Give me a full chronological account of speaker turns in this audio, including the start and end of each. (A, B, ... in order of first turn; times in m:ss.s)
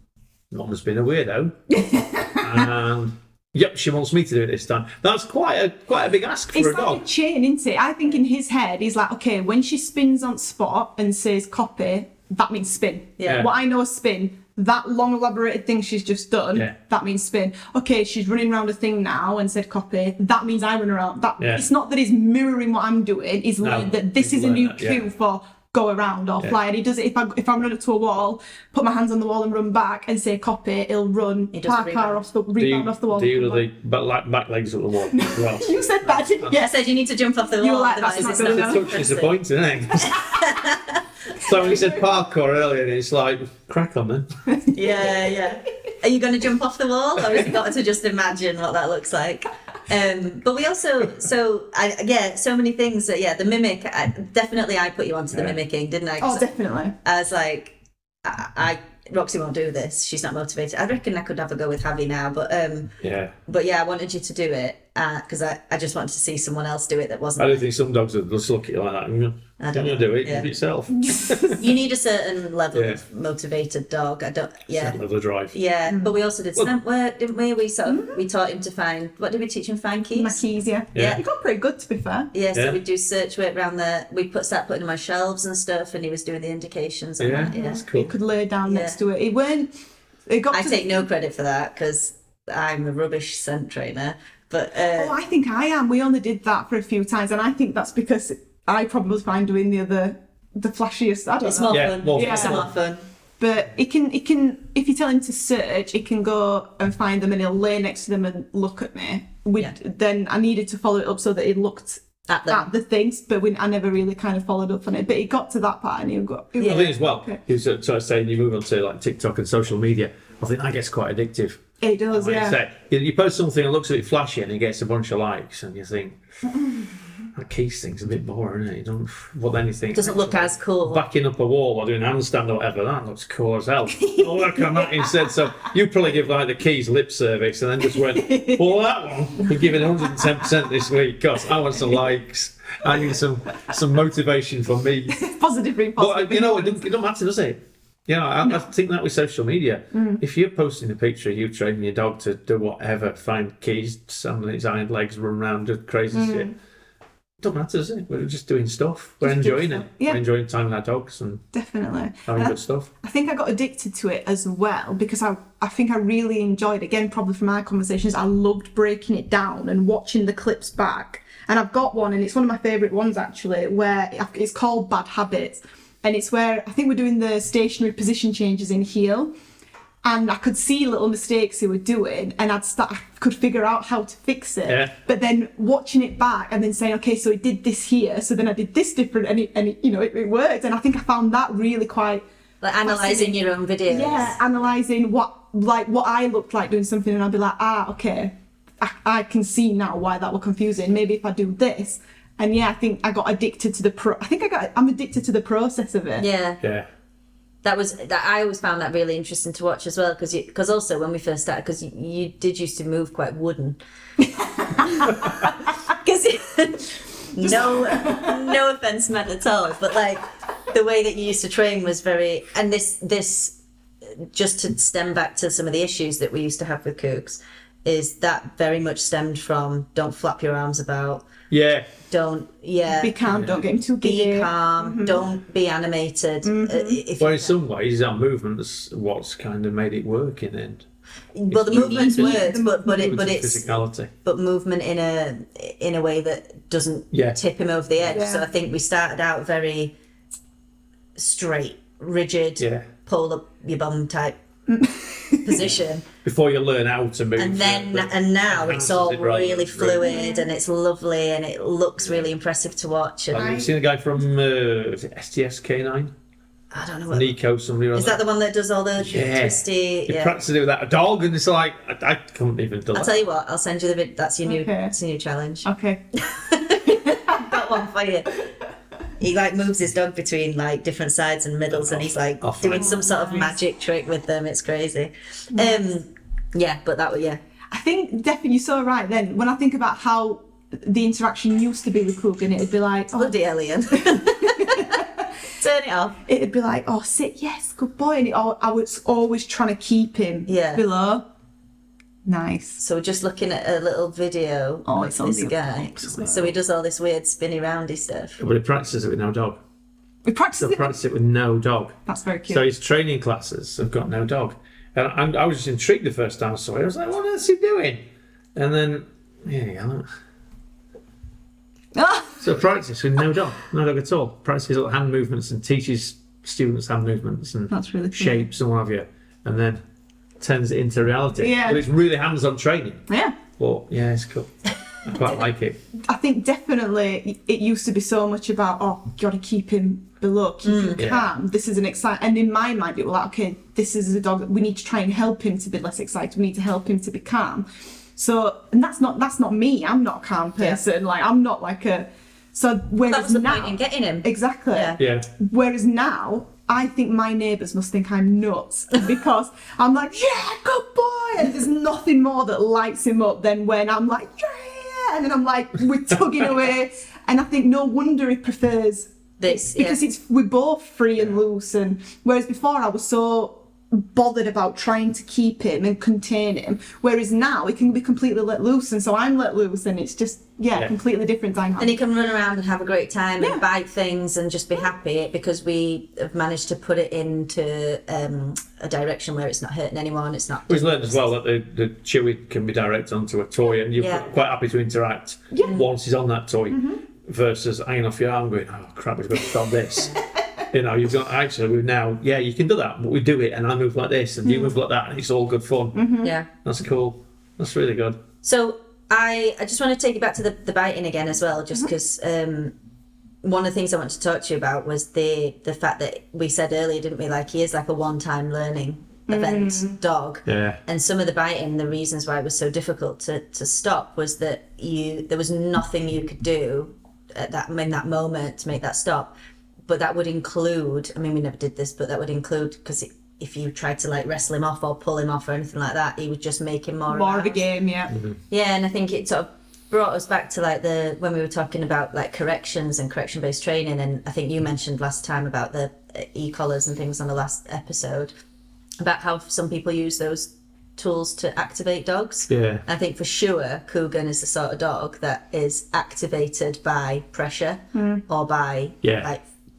0:00.5-0:01.5 A
0:01.7-0:02.7 B
0:02.4-0:07.0 A
0:06.5-0:33.6 B
0:13.2-0:13.5 C
0:21.4-0:21.6 A
0:23.6-0:25.0 A
0:31.5-0:32.2 C
0:32.6-0:36.6 A
0:35.1-0:36.8 B
0:36.5-0:39.3 C
0:37.6-0:39.0 B
0:38.0-0:40.2 A
0:40.0-0:41.0 C
0:41.4-0:44.3 A
0:41.5-0:42.0 B
0:44.5-0:45.3 B
0:44.7-0:56.4 C
0:56.2-0:56.9 B
0:57.0-1:02.9 C
1:03.0-1:03.3 A
1:03.4-1:07.6 C
1:07.4-1:11.6 A
1:09.6-1:10.5 C
1:10.9-1:11.7 B
1:11.6-1:15.0 C
1:12.7-1:13.0 A
1:14.7-1:15.5 A
1:15.5-1:20.4 C
1:15.9-1:16.1 B
1:17.8-1:18.2 B
1:20.1-1:22.3 B
1:20.9-1:21.2 A
1:22.3-1:27.8 C
1:22.5-1:22.8 A
1:27.2-1:28.1 A
1:27.5-1:29.7 B
1:28.6-1:29.0 C
1:30.2-1:31.0 B
1:30.5-1:35.1 C
1:34.9-1:42.7 B
1:41.4-1:43.0 C
1:41.7-1:42.7 A
1:43.4-1:57.4 B
1:52.3-1:52.7 C
1:56.6-1:56.9 C
1:56.6-2:06.2 A
2:01.8-2:02.6 B
2:06.5-2:07.2 B
2:07.3-2:25.2 A
2:09.9-2:11.0 C
2:14.0-2:15.4 B
2:17.9-2:18.5 B
2:25.1-2:26.9 B
2:26.0-2:36.5 A
2:28.4-2:28.7 B
2:29.9-2:30.2 B
2:36.1-2:36.5 B
2:37.4-2:41.4 A
2:39.2-2:40.2 B
2:41.5-2:59.3 B
2:42.3-2:42.9 A
3:00.0-3:12.2 B
3:04.7-3:04.9 A
3:12.6-3:14.4 C
3:12.8-3:26.2 B
3:26.2-3:26.6 C
3:26.6-3:26.9 A
3:27.6-3:33.8 C
3:34.2-3:35.5 B
3:34.8-3:43.6 C
3:37.4-3:38.5 B
3:44.2-3:51.2 C
3:51.5-3:51.9 A
3:52.1-3:53.2 C
3:52.9-3:55.2 B
3:53.2-3:53.6 A
3:54.0-3:57.5 C
3:56.4-3:57.0 B
3:57.2-4:00.8 A
4:01.3-4:03.7 C
4:01.5-4:04.1 A
4:01.7-4:03.1 B
4:04.2-4:09.9 C
4:07.1-4:07.4 A
4:08.1-4:08.4 B
4:11.2-4:14.4 C
4:12.6-4:12.9 A
4:14.7-4:15.6 B
4:15.4-4:16.0 C
4:15.6-4:20.3 A
4:17.4-4:23.6 C
4:20.0-4:20.5 B
4:22.0-4:22.3 A
4:23.3-4:26.1 A
4:23.3-4:23.7 B
4:26.7-4:27.3 C
4:27.1-4:28.2 A
4:27.9-4:30.3 C
4:29.0-4:33.2 A
4:32.9-4:38.3 C
4:34.4-4:34.9 B
4:35.6-4:36.0 B
4:36.7-4:37.7 B
4:39.2-4:47.4 C
4:41.7-4:43.1 A
4:42.7-4:43.5 B
4:45.5-4:45.8 B
4:47.7-4:53.3 B
4:53.1-4:56.2 C
4:53.9-4:55.3 B
4:56.2-5:01.2 B
5:00.5-5:00.8 C
5:02.2-5:02.8 B
5:02.8-5:08.4 C
5:04.8-5:06.5 B
5:08.4-5:09.6 A
5:10.2-5:10.9 B
5:10.6-5:12.0 A
5:12.0-5:12.6 B
5:12.5-5:18.0 A
5:18.5-5:20.0 A
5:21.9-5:22.4 B
5:22.4-5:29.8 A
5:27.7-5:28.5 B
5:30.4-5:33.1 A
5:31.4-5:31.8 B
5:33.1-5:33.4 B
5:33.6-5:35.8 A
5:36.0-6:22.0 B
5:40.6-5:41.0 C
5:41.0-5:41.3 A
5:53.1-5:55.0 C
5:55.0-5:55.3 A
6:09.4-6:10.0 C
6:21.8-6:31.3 C
6:23.4-6:23.6 B
6:30.7-6:40.2 A
6:34.0-6:34.3 C
6:36.7-6:37.0 B
6:40.2-6:40.6 B
6:40.7-6:46.0 A
6:44.4-6:44.7 B
6:45.9-6:46.3 B
6:46.2-6:46.5 C
6:46.6-6:48.2 A
6:48.4-6:52.7 C
6:53.4-7:09.3 C
6:59.3-7:00.0 B
7:00.4-7:00.8 A
7:09.9-7:17.6 C
7:17.1-7:18.1 B
7:18.5-7:28.3 C
7:29.0-7:39.4 C
7:32.5-7:32.8 A
7:37.9-7:38.2 B
7:39.0-7:39.3 A